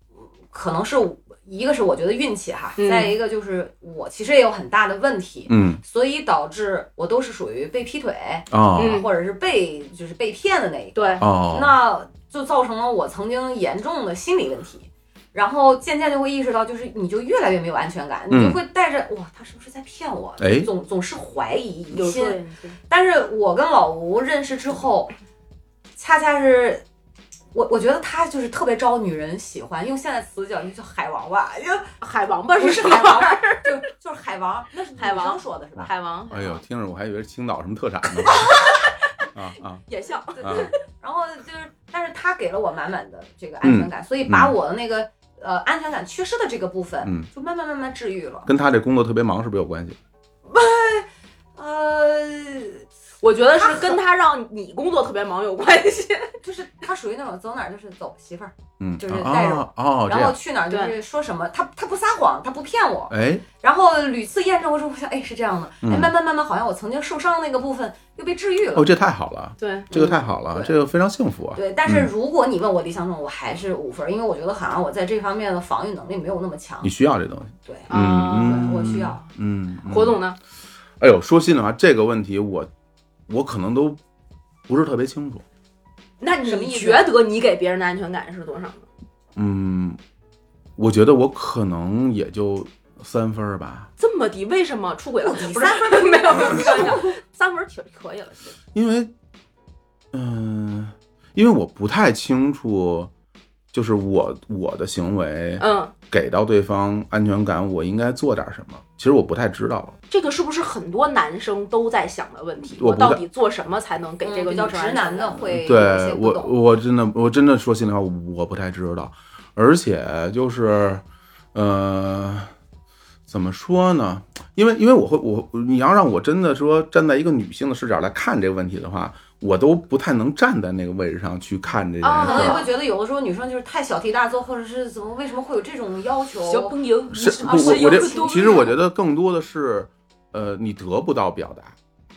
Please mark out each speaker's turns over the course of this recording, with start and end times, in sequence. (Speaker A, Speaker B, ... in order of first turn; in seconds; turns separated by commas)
Speaker A: 0.5-22.4, Speaker B: 2.8-3.2, Speaker C: 5.5-5.8, Speaker C: 8.5-9.0, Speaker B: 8.8-9.1, Speaker B: 10.9-11.2, Speaker C: 11.2-11.8, Speaker C: 18.3-18.6, Speaker C: 20.4-20.7, Speaker B: 21.9-22.8, Speaker A: 22.9-25.1, Speaker A: 26.0-26.8, Speaker A: 27.5-31.9, Speaker B: 32.0-33.7, Speaker A: 32.6-35.9, Speaker B: 35.0-36.5, Speaker C: 36.3-38.5, Speaker C: 39.3-39.8, Speaker B: 39.9-40.7, Speaker A: 40.4-48.5, Speaker C: 40.4-40.7, Speaker C: 43.6-44.5, Speaker C: 47.0-47.3, Speaker C: 48.5-50.0, Speaker A: 50.5-52.9, Speaker B: 53.2-56.4, Speaker A: 53.6-54.0, Speaker A: 56.4-68.9, Speaker C: 58.8-60.4, Speaker B: 60.7-61.0, Speaker C: 63.1-63.5, Speaker C: 65.8-66.1, Speaker C: 68.8-72.1, Speaker B: 69.6-69.9, Speaker A: 69.9-70.8, Speaker A: 71.5-76.9, Speaker C: 76.8-80.2, Speaker A: 77.7-79.2, Speaker B: 77.9-78.9, Speaker B: 79.9-80.4, Speaker C: 81.0-82.7, Speaker C: 83.3-84.0, Speaker C: 84.7-85.4, Speaker B: 86.2-88.8, Speaker A: 86.4-87.1, Speaker C: 89.4-90.0, Speaker C: 90.8-93.9, Speaker B: 94.0-98.6, Speaker A: 95.2-97.2, Speaker C: 98.7-99.1, Speaker C: 100.1-103.1, Speaker C: 103.7-110.0, Speaker B: 105.6-105.9, Speaker B: 110.1-115.5, Speaker C: 112.7-113.2, Speaker A: 114.2-116.5, Speaker C: 115.5-121.0, Speaker C: 121.5-122.5, Speaker C: 123.3-132.6, Speaker B: 132.0-132.7, Speaker A: 132.2-138.5, Speaker B: 136.4-138.8, Speaker C: 137.1-141.8